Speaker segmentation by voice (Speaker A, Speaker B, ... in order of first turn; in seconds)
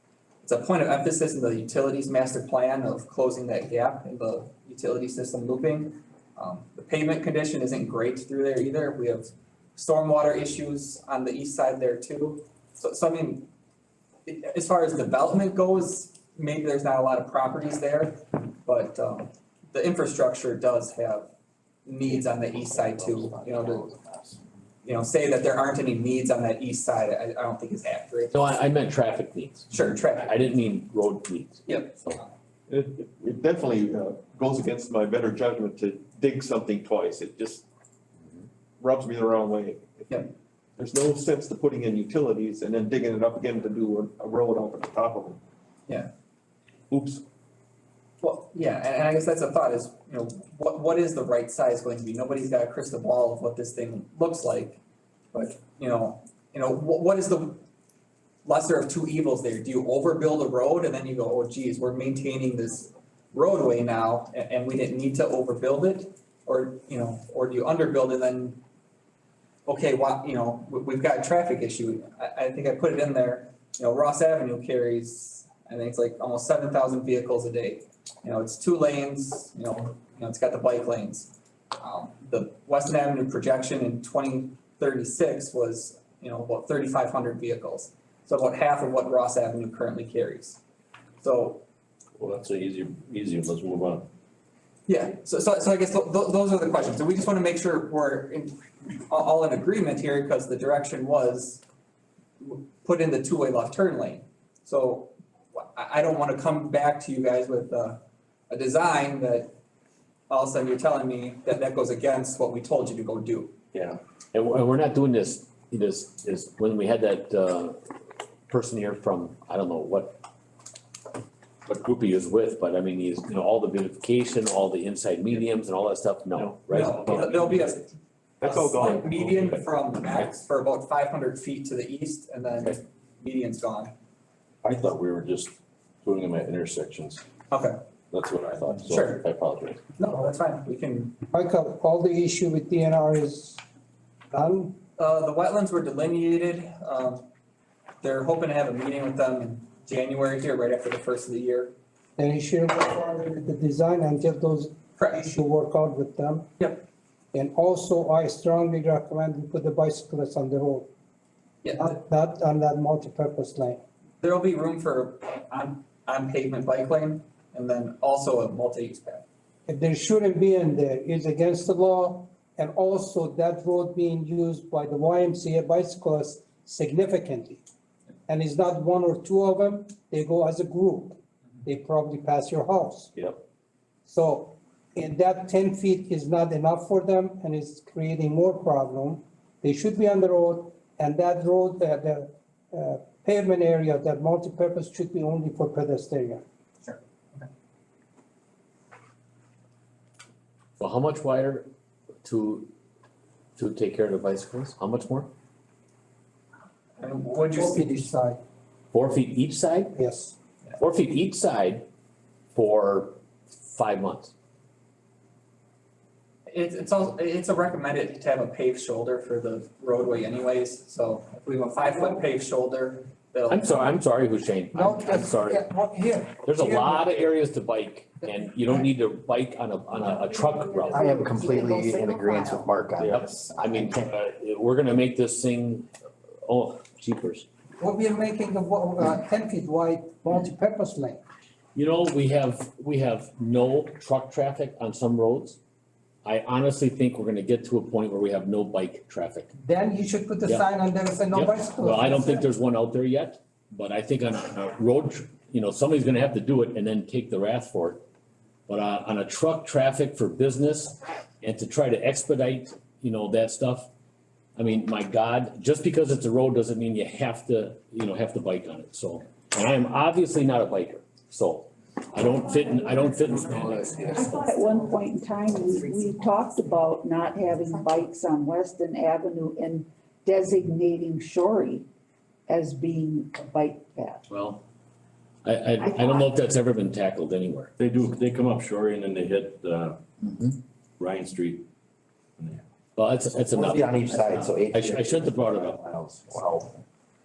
Speaker A: 0.4-13.5, 14.2-21.3, 21.9-23.9, 24.8-28.3, 29.7-30.4, 31.6-32.3, 48.2-54.8, 55.3-57.6, 58.4-68.6, 69.7-90.6, 91.2-91.6, 94.9-101.6, 102.4-109.5, 110.3-113.5, 126.7-133.9, 137.5-137.8, 138.9-139.2, 140.0-141.2, 145.0-147.3, 148.0-151.7, 155.0-155.4, 161.6-161.9, 164.2-169.2, 196.8-197.5, 207.0-208.1, 216.5-223.9
Speaker B: 23.0-23.9, 230.9-233.9, 273.9-274.3, 293.5-296.7
Speaker C: 28.3-32.2, 114.3-117.8, 118.5-120.2, 121.7-127.6, 128.8-129.6, 200.8-201.7, 202.2-202.7, 203.6-205.3, 208.9-209.9, 210.8-211.8, 212.5-214.3, 223.5-225.6, 226.4-231.1, 233.0-235.9, 236.4-237.4, 241.7-245.6, 246.2-249.5, 251.3-258.0, 258.7-263.9, 264.6-274.2, 284.3-284.6, 285.4-287.7, 292.9-295.8
Speaker D: 32.7-37.6, 38.8-40.1, 40.8-45.4, 46.9-47.2, 128.4-129.3
Speaker E: 92.2-94.1, 113.7-114.0, 134.6-137.2, 138.1-139.8, 287.8-290.0, 291.0-291.6
Speaker F: 140.0-140.3, 141.3-143.6, 144.3-144.8, 152.2-156.6, 157.3-160.9, 161.8-163.8, 169.7-177.6, 178.3-183.1, 184.1-196.4, 207.5-208.4, 209.9-210.3, 224.7-227.1, 237.8-241.2, 249.6-252.4
Speaker G: 230.7-232.7, 274.1-281.9, 282.5-284.2